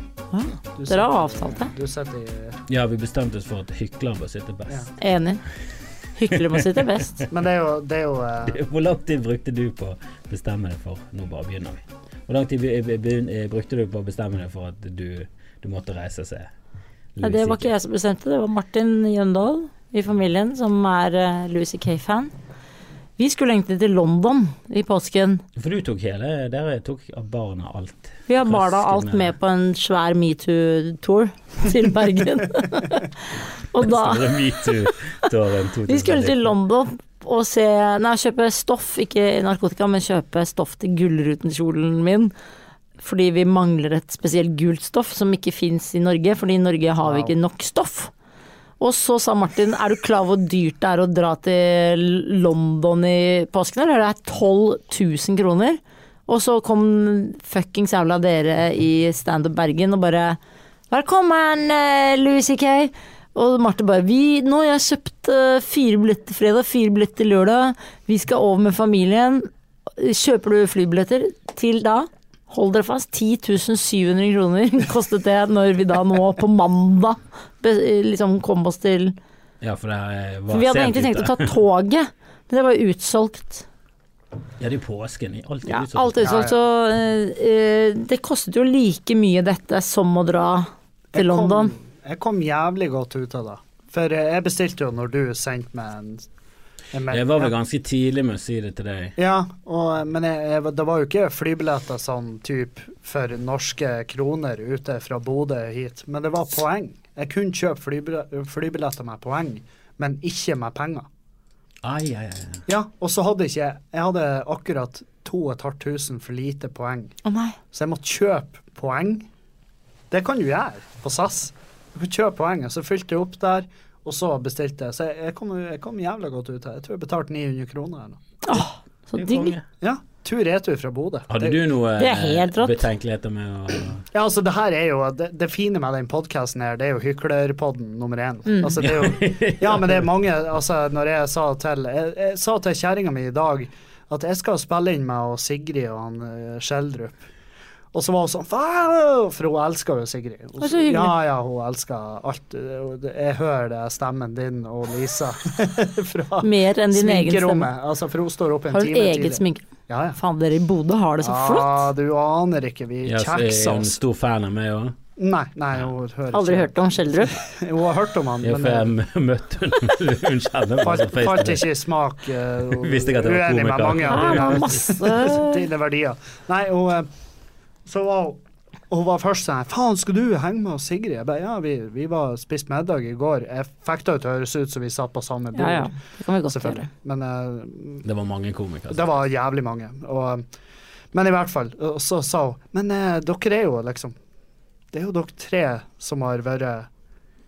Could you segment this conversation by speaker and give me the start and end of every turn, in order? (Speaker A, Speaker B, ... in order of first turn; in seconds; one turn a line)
Speaker A: 0.3-1.7
Speaker B: 0.7-2.6
Speaker C: 2.7-4.9
Speaker A: 5.0-5.4
Speaker A: 6.2-7.2
Speaker C: 6.3-7.2
Speaker B: 7.3-8.6
Speaker C: 8.4-16.5
Speaker C: 17.1-17.7
Speaker A: 17.2-22.3
Speaker A: 23.2-25.4
Speaker C: 25.6-29.3
Speaker A: 28.3-33.1
Speaker A: 33.7-35.3
Speaker C: 33.8-36.5
Speaker A: 35.9-42.3
Speaker A: 43.0-48.1
Speaker B: 47.0-47.3
Speaker A: 48.8-60.4
Speaker A: 60.9-79.2
Speaker C: 79.6-81.5
Speaker A: 80.5-83.7
Speaker C: 84.6-86.5
Speaker A: 85.7-91.7
Speaker B: 86.2-86.5
Speaker B: 91.1-96.3
Speaker B: 96.9-97.5
Speaker C: 97.1-99.2
Speaker B: 99.2-111.1
Speaker C: 111.8-112.7
Speaker B: 112.7-117.2
Speaker A: 117.2-117.6
Speaker B: 117.7-119.3
Speaker B: 120.1-128.2
Speaker A: 128.4-129.6
Speaker C: 129.2-129.6
Speaker B: 129.8-131.6
Speaker C: 131.3-134.0
Speaker A: 132.0-132.8
Speaker B: 134.1-147.2
Speaker A: 138.5-138.8
Speaker C: 138.8-140.1
Speaker B: 147.9-160.2
Speaker A: 150.6-151.1
Speaker A: 156.4-157.7
Speaker A: 158.7-161.9
Speaker B: 161.2-164.0
Speaker C: 163.0-165.0
Speaker B: 165.2-168.9
Speaker A: 166.3-167.4
Speaker C: 168.4-171.7
Speaker B: 170.8-177.1
Speaker C: 172.7-174.7
Speaker A: 174.1-175.6
Speaker B: 177.8-178.4
Speaker B: 178.9-186.0
Speaker A: 185.5-186.9
Speaker B: 186.5-188.0
Speaker C: 188.0-189.1
Speaker B: 188.9-190.4
Speaker B: 191.1-194.1
Speaker B: 194.9-196.9